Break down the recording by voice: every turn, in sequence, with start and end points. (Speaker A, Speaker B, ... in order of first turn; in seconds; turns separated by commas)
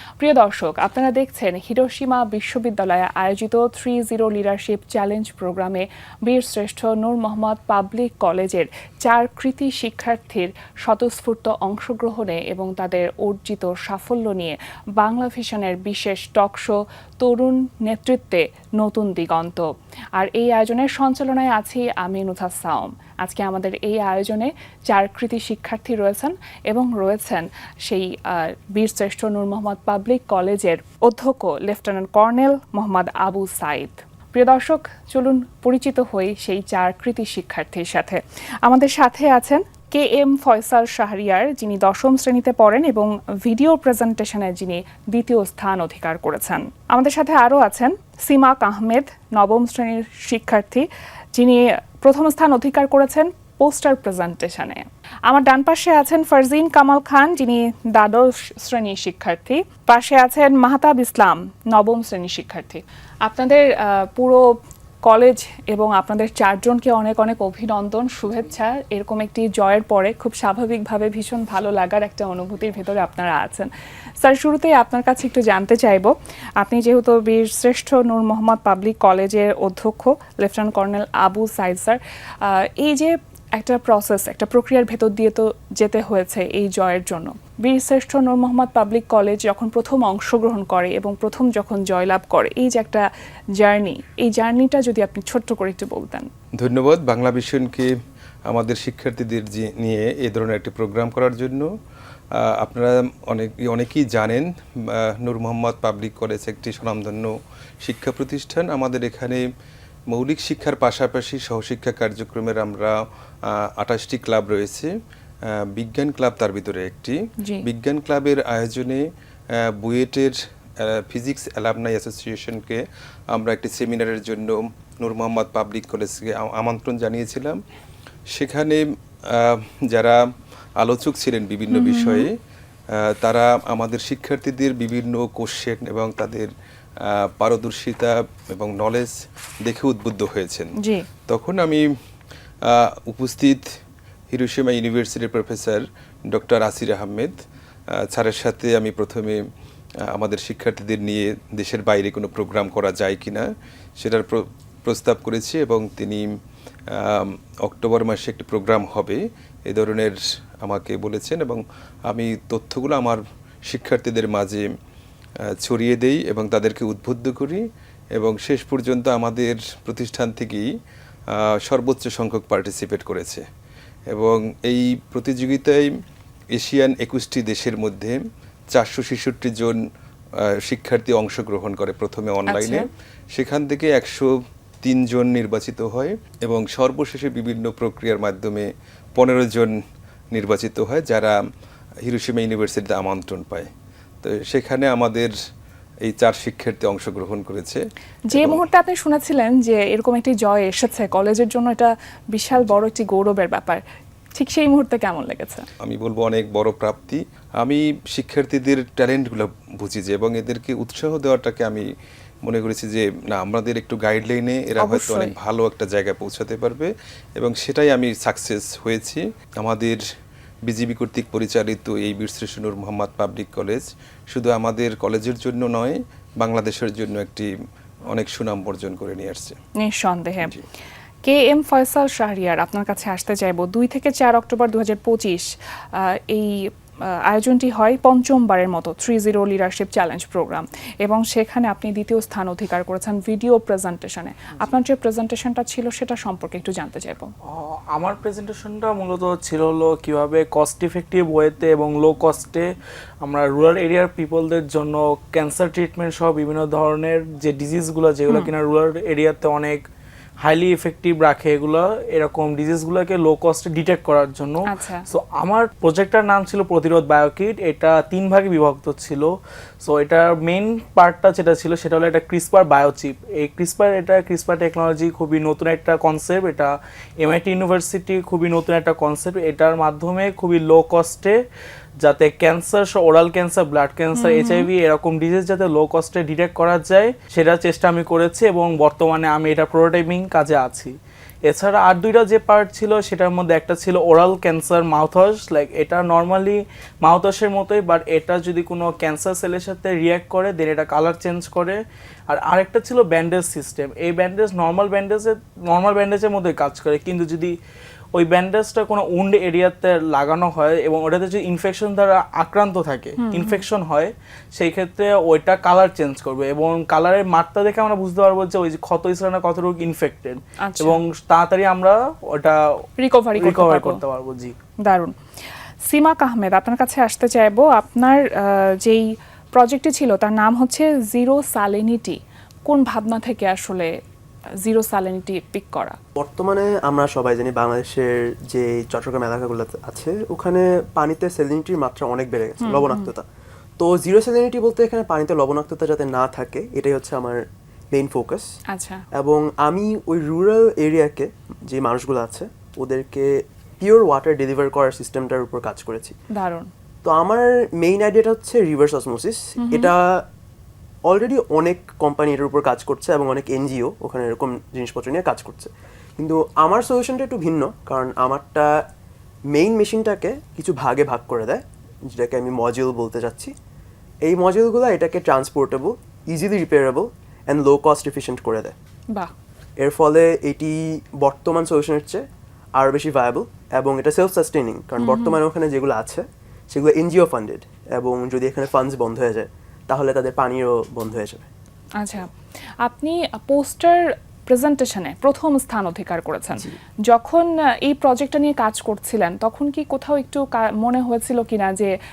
Speaker A: 0.2-64.5, Speaker A: 65.0-73.7, Speaker A: 74.2-93.0, Speaker A: 93.6-96.3, Speaker B: 96.6-97.9, Speaker B: 98.5-101.7, Speaker B: 102.3-109.5, Speaker B: 110.1-114.9, Speaker B: 115.5-127.6, Speaker A: 117.4-117.7, Speaker B: 128.3-130.2, Speaker B: 130.8-132.3, Speaker A: 131.7-132.3, Speaker B: 132.9-136.5, Speaker B: 137.0-140.7, Speaker A: 140.8-141.1, Speaker B: 141.3-141.8, Speaker B: 142.6-143.7, Speaker B: 144.3-147.4, Speaker B: 147.9-149.4, Speaker B: 150.0-153.5, Speaker B: 154.0-156.3, Speaker B: 156.9-164.7, Speaker B: 165.5-167.6, Speaker B: 168.2-170.7, Speaker B: 171.3-173.4, Speaker B: 174.1-175.9, Speaker B: 176.5-178.2, Speaker B: 178.7-179.8, Speaker B: 180.4-189.7, Speaker A: 182.5-182.9, Speaker B: 190.3-191.3, Speaker B: 192.0-193.7, Speaker B: 194.2-195.3, Speaker B: 196.0-198.6, Speaker A: 198.3-203.8, Speaker A: 204.3-205.7, Speaker B: 205.8-211.8, Speaker B: 212.4-220.0, Speaker A: 214.8-215.3, Speaker B: 220.7-227.5, Speaker B: 228.1-229.6, Speaker A: 229.8-230.5, Speaker A: 231.2-236.7, Speaker A: 237.2-247.3, Speaker C: 247.5-252.7, Speaker C: 253.2-259.8, Speaker C: 260.4-281.4, Speaker A: 264.7-265.1, Speaker C: 282.0-290.9, Speaker A: 284.1-284.7, Speaker C: 291.5-307.5, Speaker C: 308.1-322.6, Speaker A: 313.2-313.6, Speaker A: 320.6-321.0, Speaker A: 323.0-324.0, Speaker C: 323.4-324.5, Speaker A: 324.8-325.1, Speaker A: 325.8-333.9, Speaker A: 334.6-336.0, Speaker D: 336.2-343.2, Speaker A: 342.6-343.1, Speaker D: 343.8-348.5, Speaker A: 348.7-349.0, Speaker D: 349.1-356.2, Speaker A: 356.3-356.7, Speaker D: 357.0-360.2, Speaker A: 359.6-359.9, Speaker D: 361.1-368.8, Speaker D: 369.5-373.5, Speaker D: 374.2-378.7, Speaker D: 379.8-382.2, Speaker D: 382.8-391.5, Speaker A: 385.0-385.4, Speaker A: 392.0-401.9